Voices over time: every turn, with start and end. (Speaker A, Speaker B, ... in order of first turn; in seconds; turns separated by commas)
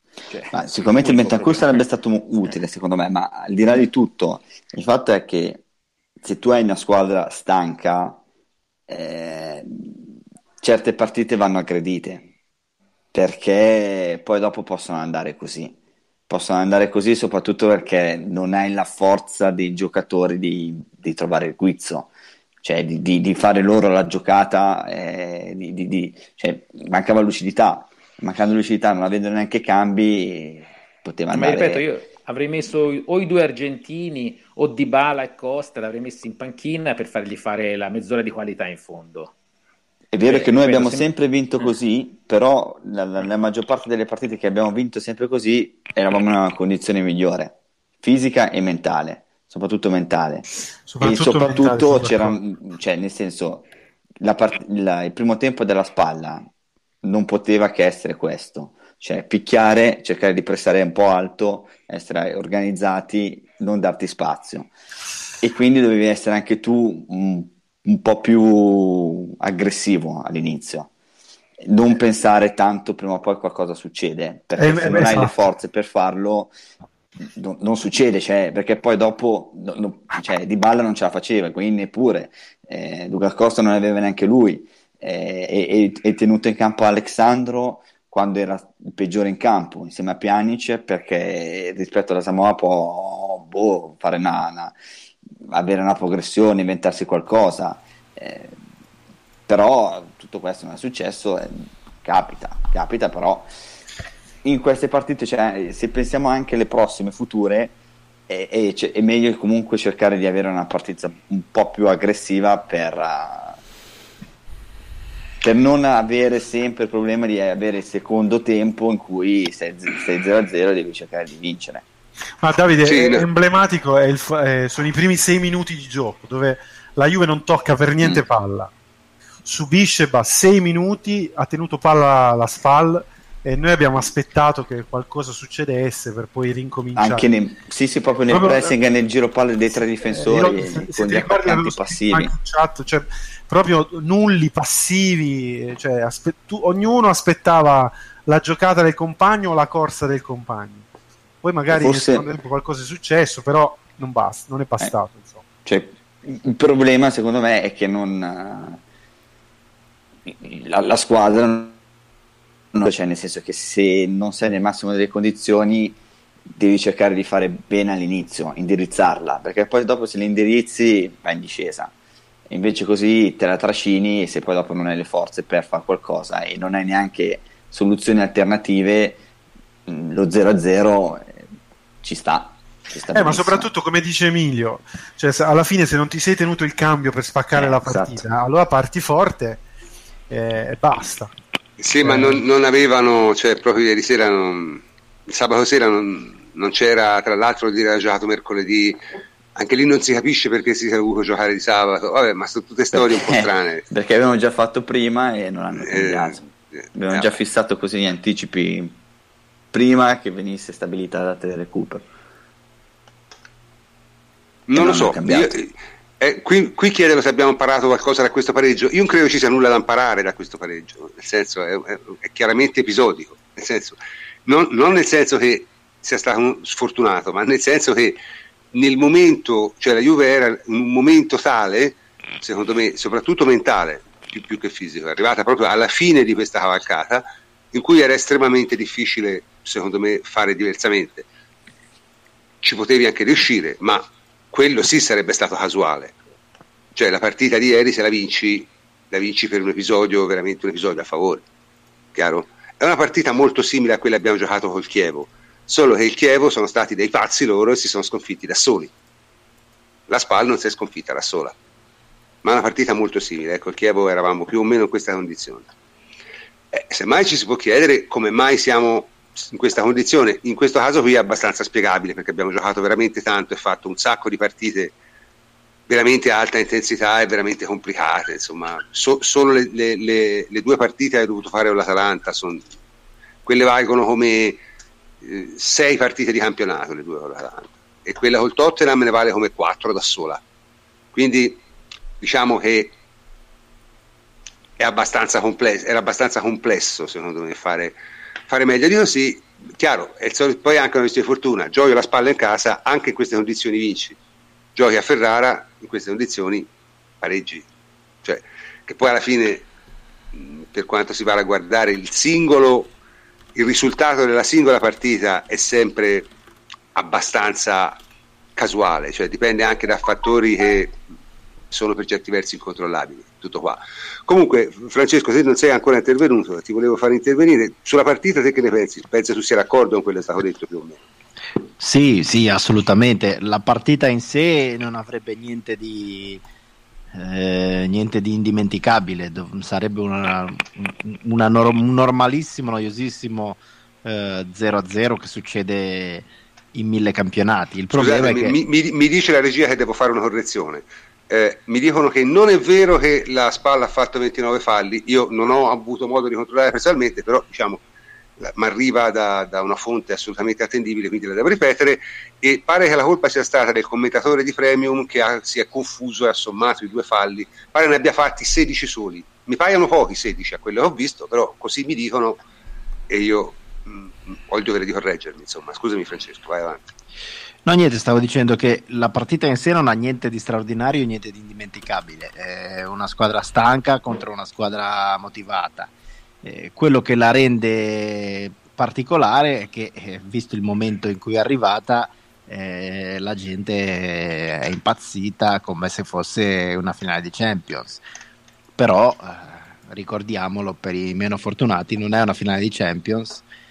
Speaker A: 0.3-1.8, Speaker B: 0.5-5.6, Speaker B: 6.2-8.2, Speaker B: 8.9-10.1, Speaker B: 10.6-12.3, Speaker B: 13.1-15.7, Speaker B: 16.3-22.1, Speaker B: 22.6-31.8, Speaker A: 31.3-39.3, Speaker B: 40.1-50.5, Speaker A: 40.2-41.1, Speaker C: 50.9-52.3, Speaker B: 51.0-53.7, Speaker B: 54.2-56.5, Speaker B: 57.0-64.7, Speaker B: 65.4-70.9, Speaker B: 71.6-76.5, Speaker C: 74.6-75.3, Speaker B: 77.2-94.7, Speaker B: 95.5-98.5, Speaker B: 99.5-103.5, Speaker B: 104.4-107.7, Speaker B: 108.3-113.6, Speaker B: 115.4-121.8, Speaker C: 122.4-128.7, Speaker D: 122.8-123.2, Speaker C: 129.4-137.2, Speaker B: 136.9-142.3, Speaker C: 138.3-138.7, Speaker C: 140.1-150.8, Speaker C: 151.4-155.4, Speaker B: 151.7-152.3, Speaker B: 155.6-158.8, Speaker B: 160.2-161.8, Speaker B: 162.7-166.0, Speaker B: 166.5-171.9, Speaker B: 172.5-179.2, Speaker B: 179.9-181.4, Speaker B: 182.0-183.7, Speaker C: 183.1-189.6, Speaker B: 187.5-188.2, Speaker C: 190.3-191.3, Speaker D: 191.8-199.0, Speaker C: 192.0-192.4, Speaker D: 199.5-203.8, Speaker B: 202.9-206.4, Speaker D: 205.9-206.3, Speaker B: 206.9-209.0, Speaker B: 209.7-212.1, Speaker D: 214.7-228.2, Speaker B: 214.7-215.6, Speaker D: 228.7-241.2, Speaker D: 242.6-246.1, Speaker D: 246.9-251.4, Speaker D: 252.1-258.9, Speaker D: 260.1-261.6, Speaker D: 262.4-265.7, Speaker D: 266.7-274.9, Speaker D: 275.9-282.6, Speaker D: 283.4-284.6, Speaker D: 285.2-290.4, Speaker D: 291.1-291.6, Speaker D: 292.2-292.9, Speaker D: 294.8-304.2, Speaker D: 304.7-306.7, Speaker D: 307.2-307.7, Speaker D: 308.2-309.7, Speaker D: 310.3-312.9, Speaker D: 313.5-316.3, Speaker D: 316.9-318.0, Speaker D: 318.6-321.0, Speaker D: 321.7-331.0, Speaker E: 331.8-336.4, Speaker E: 337.1-348.6, Speaker D: 347.9-357.8, Speaker D: 358.4-372.4, Speaker D: 373.1-376.9, Speaker E: 377.6-385.9, Speaker E: 386.4-398.0, Speaker E: 398.8-403.4